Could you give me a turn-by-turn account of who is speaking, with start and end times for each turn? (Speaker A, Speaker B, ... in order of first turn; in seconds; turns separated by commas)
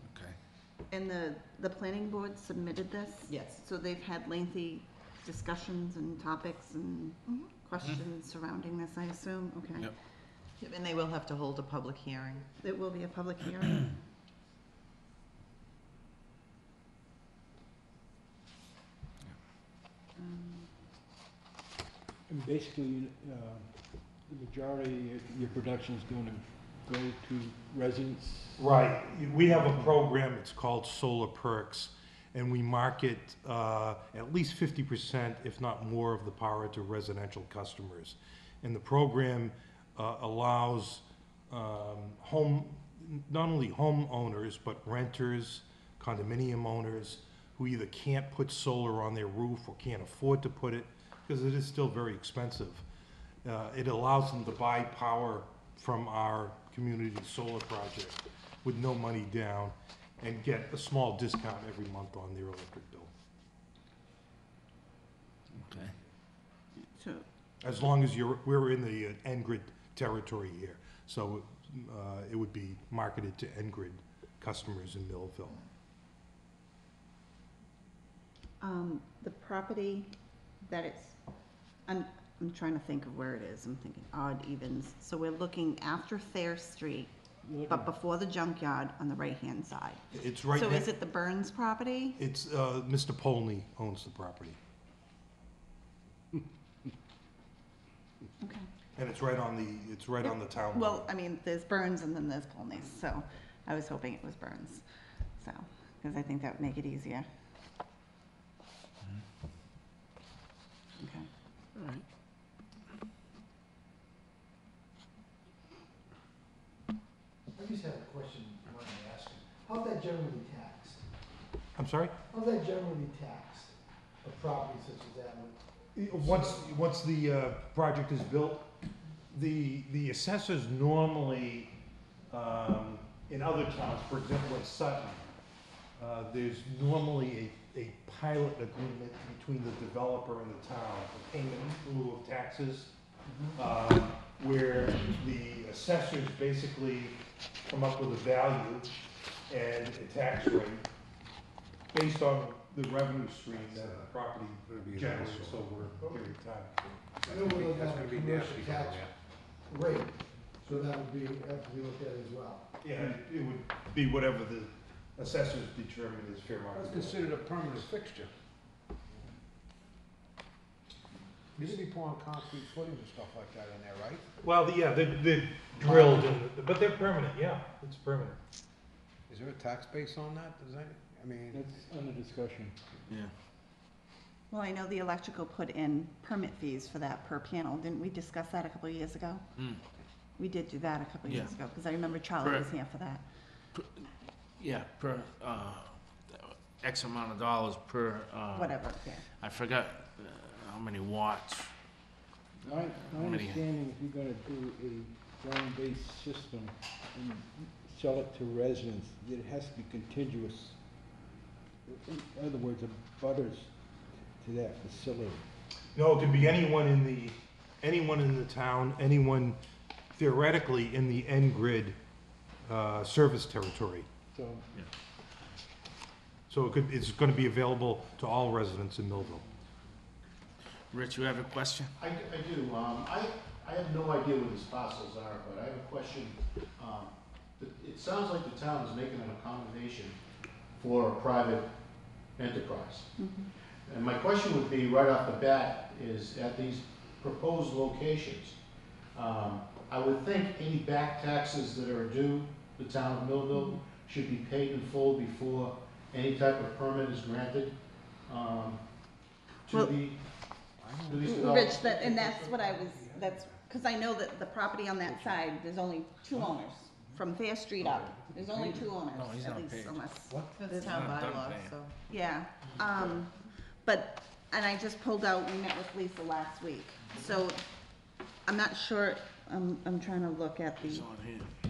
Speaker A: 0.9-9.9, Speaker B: 3.3-3.6, Speaker B: 10.6-12.5, Speaker A: 12.6-14.0, Speaker A: 20.2-20.7, Speaker C: 22.3-28.7, Speaker D: 28.6-52.8, Speaker D: 53.5-63.1, Speaker E: 65.5-66.0, Speaker A: 66.9-67.2, Speaker D: 67.6-75.6, Speaker A: 78.6-80.1, Speaker A: 80.6-81.2, Speaker A: 81.9-87.1, Speaker C: 87.4-87.9, Speaker A: 87.7-92.2, Speaker D: 90.1-90.9, Speaker D: 92.2-94.6, Speaker D: 99.0-101.1, Speaker A: 100.2-104.8, Speaker A: 105.4-107.3, Speaker A: 111.0-111.3, Speaker E: 111.8-112.0, Speaker F: 117.5-121.0, Speaker D: 121.8-122.2, Speaker F: 122.3-125.6, Speaker D: 126.0-128.7, Speaker F: 126.1-126.7, Speaker D: 129.3-131.7, Speaker D: 132.3-135.2, Speaker D: 136.0-142.9, Speaker D: 143.5-148.9, Speaker D: 149.5-150.9, Speaker D: 151.9-157.0, Speaker G: 154.7-155.4, Speaker G: 157.2-159.1, Speaker F: 157.3-159.1, Speaker H: 157.4-158.0, Speaker H: 158.6-158.9, Speaker F: 159.7-162.7, Speaker D: 162.8-167.3, Speaker G: 166.8-168.1, Speaker H: 167.7-168.3, Speaker H: 171.6-172.6, Speaker G: 171.6-174.2, Speaker D: 174.4-178.4, Speaker G: 179.3-181.6, Speaker C: 181.5-182.8, Speaker A: 184.5-189.4, Speaker A: 190.4-193.2, Speaker E: 191.2-191.5, Speaker E: 192.4-192.7, Speaker E: 193.7-201.7, Speaker A: 198.5-199.3, Speaker C: 202.6-210.8, Speaker E: 203.1-203.7, Speaker C: 211.9-213.7, Speaker C: 214.4-215.5, Speaker D: 215.9-219.6, Speaker D: 220.1-222.0, Speaker D: 222.7-224.1, Speaker C: 224.3-224.7, Speaker D: 226.5-229.4, Speaker E: 230.9-231.9, Speaker H: 232.1-240.2, Speaker H: 240.8-241.7, Speaker H: 242.4-243.1, Speaker A: 243.2-243.5, Speaker H: 243.9-248.6, Speaker H: 249.2-257.8, Speaker A: 253.5-253.8, Speaker H: 258.3-258.8, Speaker H: 259.7-260.0, Speaker G: 259.9-260.2, Speaker H: 261.1-261.9, Speaker G: 261.1-261.9, Speaker A: 261.2-270.5, Speaker E: 267.8-270.1, Speaker B: 270.5-271.9, Speaker E: 270.7-271.8, Speaker A: 272.1-273.3, Speaker A: 273.8-277.6, Speaker A: 278.5-281.1, Speaker E: 280.8-281.5